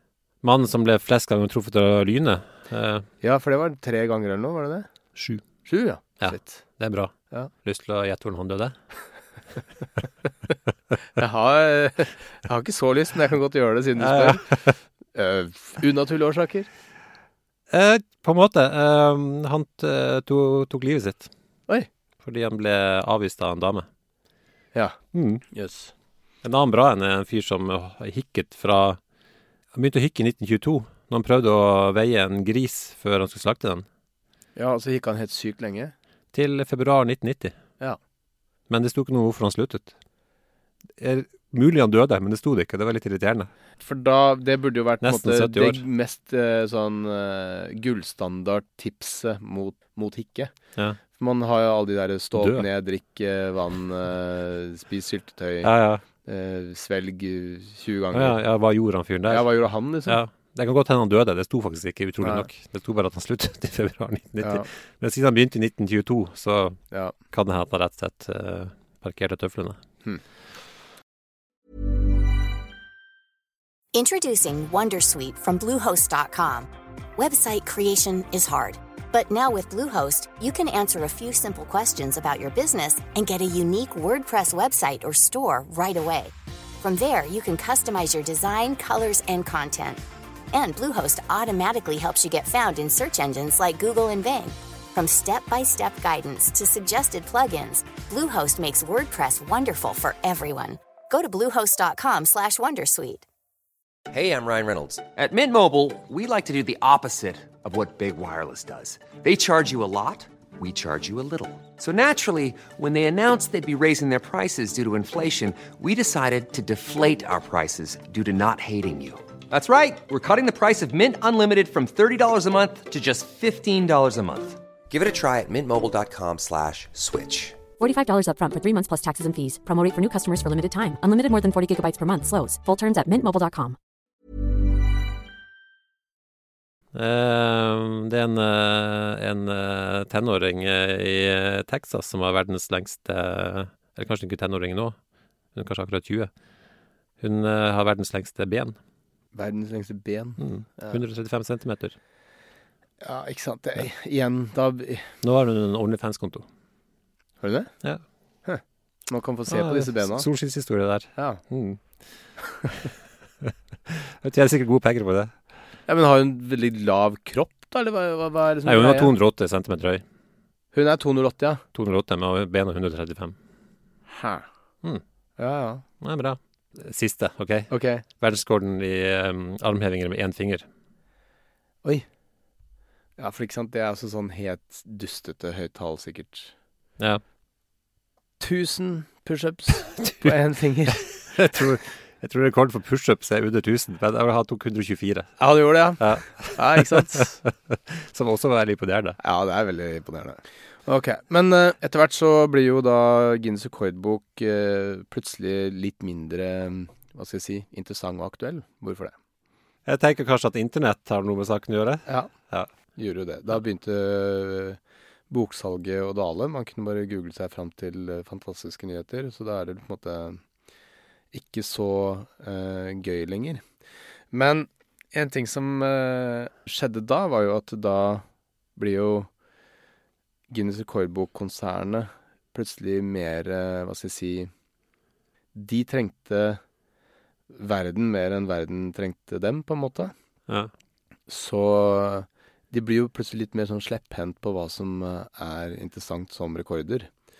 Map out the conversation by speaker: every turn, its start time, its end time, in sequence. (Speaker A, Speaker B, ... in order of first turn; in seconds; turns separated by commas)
Speaker A: 0.4-3.1, Speaker B: 3.2-4.9, Speaker A: 5.2-5.4, Speaker B: 5.7-6.6, Speaker A: 6.2-8.8, Speaker B: 11.2-14.5, Speaker A: 14.0-14.7, Speaker B: 15.1-16.7, Speaker A: 17.7-21.3, Speaker A: 22.2-23.9, Speaker A: 25.1-25.4, Speaker B: 25.5-25.9, Speaker A: 26.4-29.0, Speaker A: 29.7-33.9, Speaker B: 34.6-35.9, Speaker A: 36.3-37.6, Speaker A: 38.7-39.9, Speaker A: 41.0-43.5, Speaker B: 43.8-50.5, Speaker A: 45.0-45.8, Speaker B: 51.2-55.7, Speaker A: 52.4-52.7, Speaker A: 55.6-56.0, Speaker B: 56.2-58.4, Speaker A: 58.1-59.5, Speaker B: 59.3-60.2, Speaker A: 60.0-66.8, Speaker B: 62.2-62.5, Speaker B: 64.4-64.7, Speaker A: 67.3-69.8, Speaker C: 73.9-90.0, Speaker C: 90.5-103.3, Speaker D: 104.1-127.6, Speaker E: 127.8-133.8, Speaker A: 136.9-145.0, Speaker A: 145.6-146.3, Speaker A: 147.2-148.8, Speaker B: 149.3-151.0, Speaker A: 150.4-152.0, Speaker B: 153.0-155.1, Speaker A: 155.2-156.5, Speaker B: 157.4-157.7, Speaker B: 158.5-160.3, Speaker A: 159.5-161.8, Speaker A: 163.4-165.3, Speaker B: 165.9-169.2, Speaker A: 168.7-170.0, Speaker B: 170.7-171.6, Speaker A: 171.8-173.4, Speaker B: 174.1-174.5, Speaker B: 175.4-175.8, Speaker A: 176.0-180.7, Speaker B: 177.7-178.0, Speaker B: 183.2-186.5, Speaker B: 188.4-191.7, Speaker A: 190.0-190.3, Speaker A: 191.1-195.3, Speaker B: 195.4-197.4, Speaker A: 196.0-199.2, Speaker B: 199.2-209.2, Speaker A: 209.9-212.7, Speaker B: 213.0-214.8, Speaker B: 215.3-220.4, Speaker B: 221.3-223.6, Speaker B: 224.3-228.2, Speaker B: 228.8-229.3, Speaker B: 230.5-234.5, Speaker B: 235.5-236.6, Speaker B: 237.5-240.1, Speaker B: 241.3-247.1